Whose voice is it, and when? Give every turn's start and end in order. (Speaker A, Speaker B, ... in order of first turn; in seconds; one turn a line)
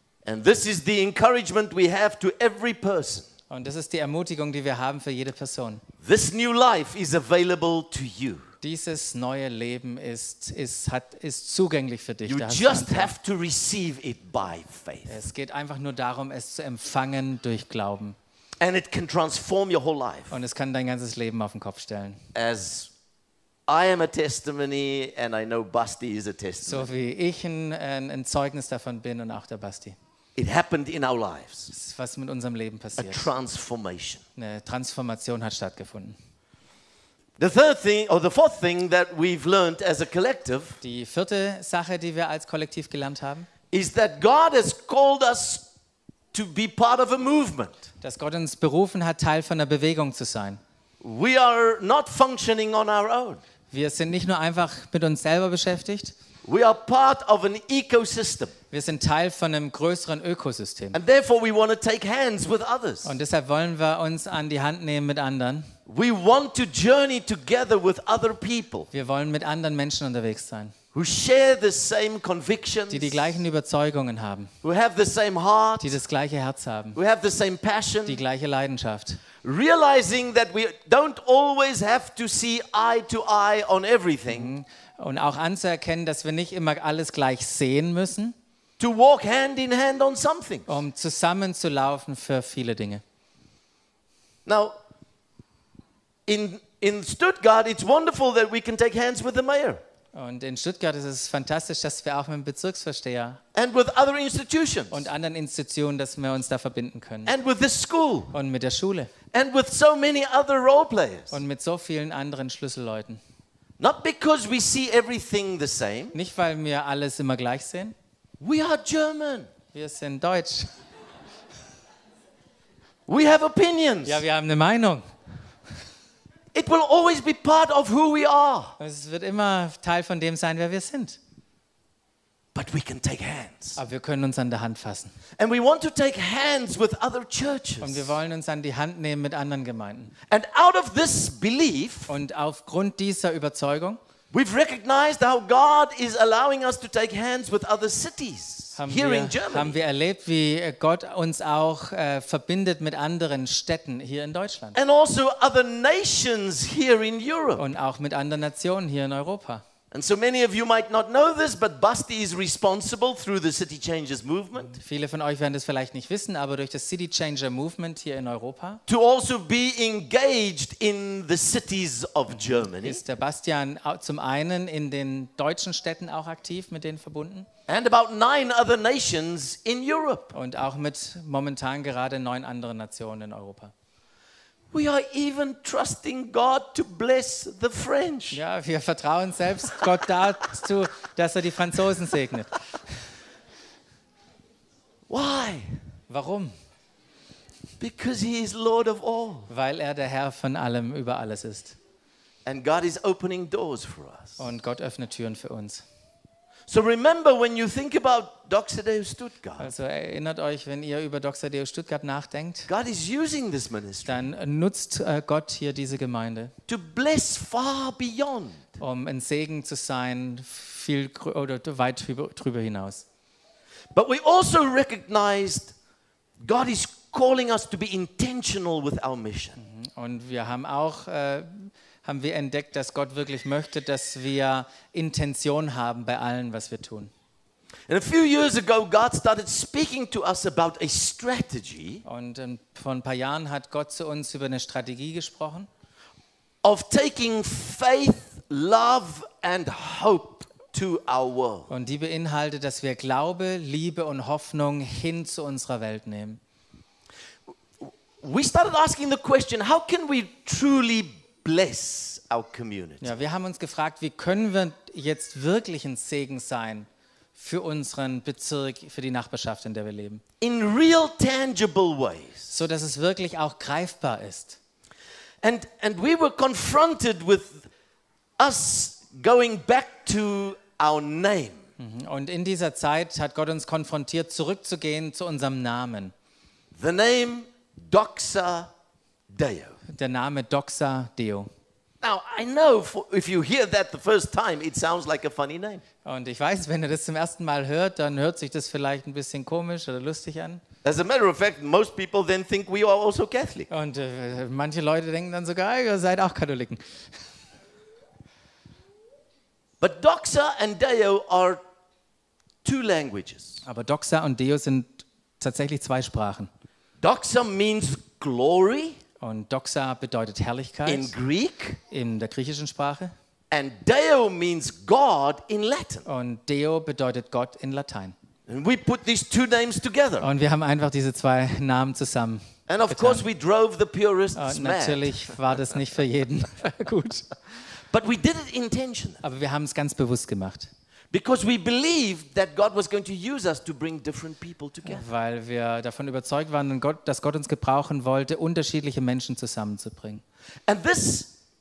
Speaker A: 0.2-3.3
Speaker B: 3.5-5.8
Speaker A: 6.0-8.5
Speaker B: 8.6-13.1
Speaker A: 12.2-15.2
Speaker B: 15.1-18.2
Speaker A: 18.6-20.4
Speaker B: 20.3-22.2
Speaker A: 22.3-22.9
Speaker A: 23.7-26.9
Speaker B: 26.6-30.0
Speaker A: 30.4-31.7
Speaker B: 31.7-33.3
Speaker A: 33.0-34.2
Speaker B: 34.4-36.2
Speaker A: 37.4-40.8
Speaker B: 40.8-43.5
Speaker A: 43.7-45.7
Speaker A: 46.3-47.8
Speaker B: 48.0-50.6
Speaker A: 51.0-53.4
Speaker B: 53.7-56.1
Speaker A: 56.4-58.5
Speaker B: 58.7-61.0
Speaker A: 60.9-63.1
Speaker B: 63.0-65.7
Speaker A: 65.9-68.9
Speaker B: 68.9-70.8
Speaker A: 70.9-73.2
Speaker B: 72.9-74.5
Speaker A: 74.6-75.9
Speaker B: 75.8-77.0
Speaker A: 77.0-78.2
Speaker B: 78.1-79.2
Speaker A: 79.4-84.5
Speaker B: 84.3-88.3
Speaker A: 88.8-90.8
Speaker B: 90.7-93.0
Speaker A: 94.5-94.8
Speaker A: 96.3-99.8
Speaker B: 100.1-103.4
Speaker A: 103.5-105.1
Speaker B: 104.9-107.3
Speaker A: 107.3-108.3
Speaker B: 108.3-109.1
Speaker A: 109.3-111.4
Speaker B: 111.3-113.2
Speaker A: 113.8-116.2
Speaker B: 116.1-118.0
Speaker A: 118.4-119.5
Speaker B: 119.7-120.7
Speaker A: 123.1-124.2
Speaker B: 124.0-125.1
Speaker A: 126.5-128.8
Speaker B: 128.8-131.2
Speaker A: 132.6-133.8
Speaker B: 133.8-135.2
Speaker A: 135.4-138.1
Speaker B: 137.8-140.1
Speaker A: 140.3-142.1
Speaker B: 142.1-144.0
Speaker A: 144.3-149.8
Speaker B: 148.8-154.8
Speaker A: 154.8-157.6
Speaker B: 157.6-159.6
Speaker A: 159.9-164.8
Speaker B: 164.8-168.8
Speaker A: 168.9-173.0
Speaker B: 172.3-177.5
Speaker A: 177.7-180.3
Speaker B: 180.3-183.7
Speaker A: 184.7-188.4
Speaker B: 188.3-192.9
Speaker A: 195.1-195.8
Speaker B: 196.1-196.5
Speaker A: 197.8-199.5
Speaker B: 199.5-201.8
Speaker A: 202.4-204.4
Speaker B: 204.4-205.8
Speaker A: 206.7-209.7
Speaker B: 209.6-212.7
Speaker A: 212.7-214.2
Speaker B: 214.1-216.5
Speaker A: 216.7-218.6
Speaker B: 218.8-223.1
Speaker A: 223.9-225.7
Speaker A: 226.4-229.6
Speaker B: 229.6-237.1
Speaker A: 237.9-242.0
Speaker B: 242.1-245.7
Speaker A: 246.6-251.7
Speaker B: 251.7-256.4
Speaker A: 257.8-263.1
Speaker B: 263.0-270.2
Speaker A: 270.4-272.5
Speaker B: 272.5-274.6
Speaker A: 275.4-277.7
Speaker A: 278.4-281.6
Speaker B: 281.8-286.1
Speaker A: 286.8-288.7
Speaker A: 289.3-289.8
Speaker B: 289.9-291.5
Speaker A: 292.0-295.8
Speaker B: 296.1-300.6
Speaker A: 300.8-303.7
Speaker B: 303.7-306.8
Speaker A: 309.8-311.6
Speaker A: 312.6-313.6
Speaker B: 313.6-316.5
Speaker A: 317.0-319.0
Speaker B: 319.2-321.1
Speaker A: 320.9-321.8
Speaker B: 321.9-323.1
Speaker A: 323.5-326.1
Speaker B: 326.1-328.1
Speaker A: 328.5-330.3
Speaker B: 330.2-333.3
Speaker A: 332.7-335.3
Speaker B: 334.4-337.3
Speaker A: 337.9-339.2
Speaker B: 339.2-340.7
Speaker A: 341.1-345.1
Speaker B: 344.9-350.2
Speaker A: 350.7-351.3